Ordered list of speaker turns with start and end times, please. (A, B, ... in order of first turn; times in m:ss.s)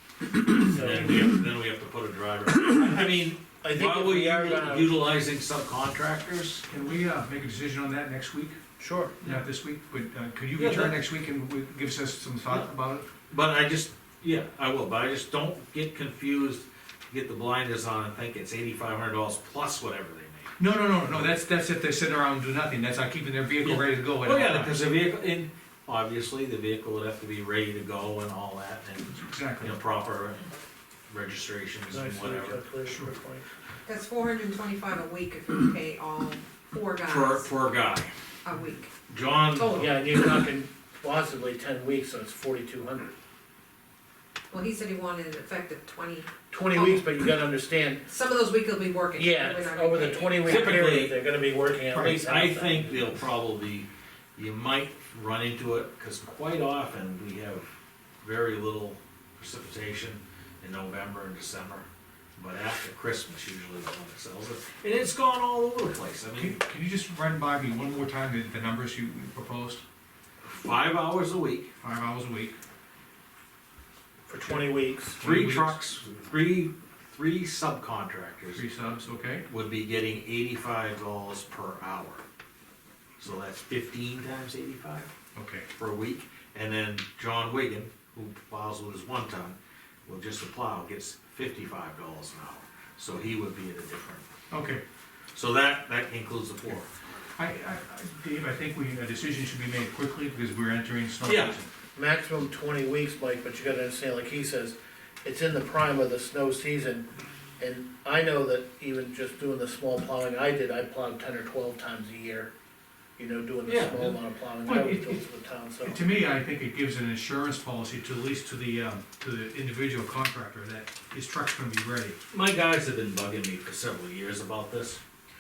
0:00.5-0:06.6 A
0:00.6-0:01.3 B
0:03.6-0:04.9 B
0:06.7-0:08.6 C
0:08.8-0:09.2 B
0:09.2-0:13.1 C
0:10.6-0:11.0 A
0:13.3-0:20.5 A
0:20.6-0:24.8 C
0:23.6-0:30.5 A
0:29.1-0:29.7 C
0:31.1-0:32.6 A
0:31.9-0:33.4 B
0:33.8-0:37.5 D
0:37.1-0:38.1 A
0:38.4-0:38.9 D
0:39.1-0:39.9 A
0:39.6-0:39.9 D
0:39.7-0:43.1 B
0:44.5-0:47.1 D
0:46.5-0:48.0 B
0:48.1-0:50.9 D
0:49.2-0:53.0 B
0:50.4-0:51.2 A
0:51.9-0:52.2 C
0:52.2-0:57.7 A
0:58.2-1:01.9 A
1:02.4-1:06.6 A
1:06.4-1:09.8 C
1:10.4-1:11.7 A
1:11.8-1:12.6 C
1:14.3-1:15.2 B
1:14.4-1:15.8 C
1:15.2-1:18.6 A
1:18.6-1:19.4 C
1:19.5-1:22.2 A
1:23.2-1:25.1 A
1:25.4-1:25.7 C
1:25.8-1:34.3 A
1:34.5-1:34.8 C
1:35.4-1:36.9 A
1:37.4-1:41.7 C
1:41.2-1:41.6 A
1:42.0-1:47.0 B
1:47.6-1:52.5 B
1:53.2-1:56.0 B
1:53.7-1:54.2 A
1:54.6-1:55.2 C
1:55.8-2:02.2 C
2:02.3-2:05.0 A